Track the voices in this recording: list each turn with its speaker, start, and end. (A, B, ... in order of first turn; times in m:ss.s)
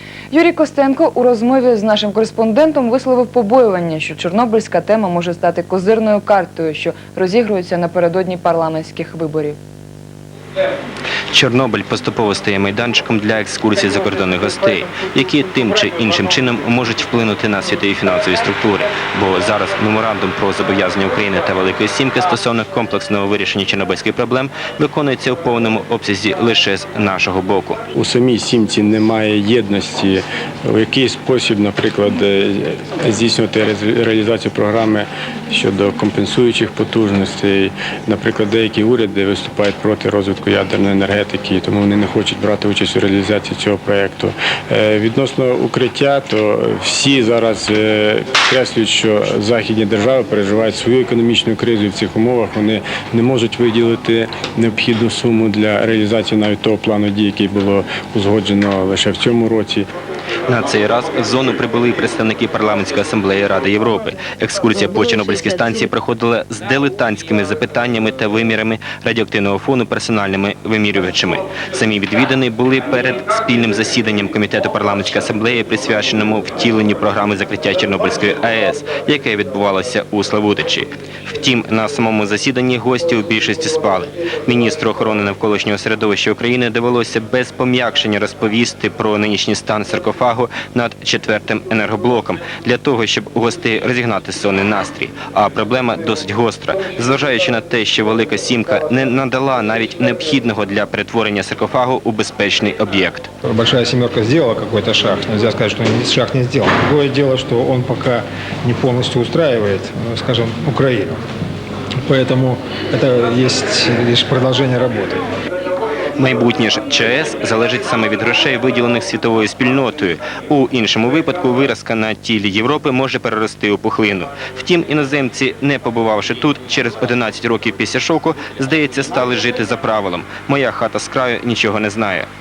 0:00.3-0:09.6 A
0:11.3-0:27.8 B
0:27.9-0:59.9 C
1:00.5-1:43.3 B
1:43.4-1:51.2 D
1:52.1-1:55.2 D
1:56.2-2:12.3 B